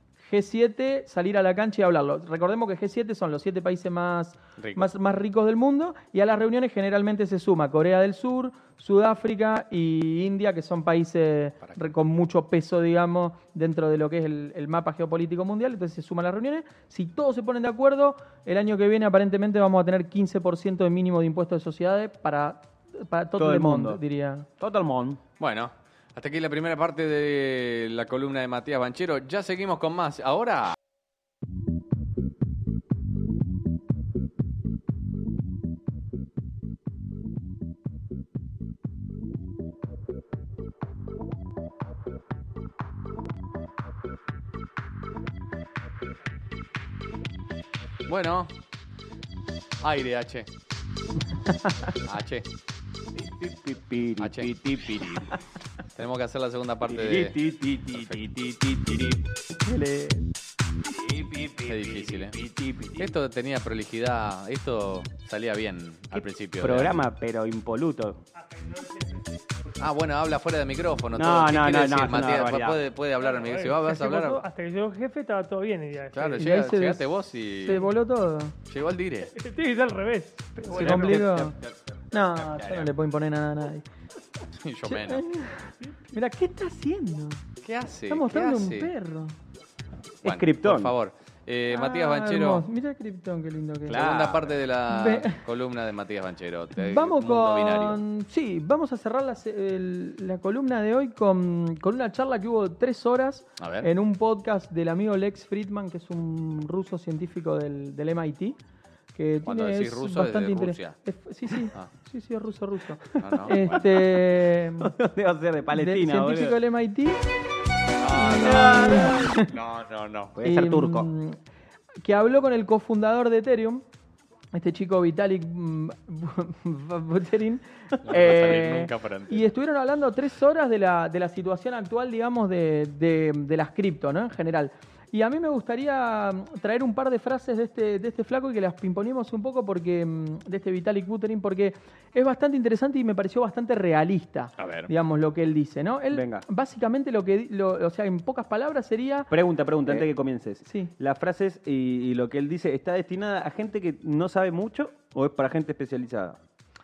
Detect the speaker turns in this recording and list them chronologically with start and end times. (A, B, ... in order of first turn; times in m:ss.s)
0:00.3-0:24.5 A
0:04.6-0:04.9 B
0:23.4-0:24.0 C
0:24.6-0:25.2 C
0:25.4-0:30.8 B
0:48.1-0:48.5 B
0:49.8-0:50.5 B
0:52.0-0:52.5 B
0:53.1-0:55.3 C
0:54.2-0:55.4 B
0:55.9-0:57.4 B
0:56.8-0:59.3 C
0:57.9-0:58.3 B
0:59.6-1:00.3 A
1:00.8-1:03.1 C
1:01.6-1:02.4 B
1:03.0-1:07.0 B
1:06.1-1:08.2 C
1:08.4-1:09.4 D
1:09.8-1:14.4 B
1:11.1-1:12.8 C
1:13.2-1:16.5 D
1:16.1-1:17.9 B
1:16.3-1:18.6 A
1:18.7-1:19.3 B
1:19.4-1:21.3 D
1:20.7-1:21.7 C
1:20.7-1:21.6 A
1:22.1-1:23.8 A
1:22.4-1:22.9 C
1:24.6-1:25.2 B
1:24.9-1:27.4 A
1:27.6-1:28.9 B
1:28.1-1:29.4 A
1:30.2-1:30.9 C
1:30.2-1:32.6 B
1:31.7-1:34.1 A
1:33.9-1:34.5 C
1:33.9-1:38.0 B
1:34.9-1:35.4 A
1:36.8-1:48.6 A
1:43.6-1:43.9 B
1:49.2-1:54.9 A
1:49.4-1:51.0 B
1:53.2-1:54.0 B
1:54.8-1:56.6 C
1:55.7-1:57.2 A
1:58.0-2:00.4 B
1:58.2-1:59.5 A
1:58.3-1:59.2 C
2:00.4-2:01.1 C
2:00.4-2:01.4 A
2:02.0-2:03.8 A
2:04.5-2:29.3 A
2:08.1-2:09.5 B
2:24.6-2:24.9 B
2:26.1-2:26.5 C
2:29.3-2:36.4 C
2:30.6-2:30.9 A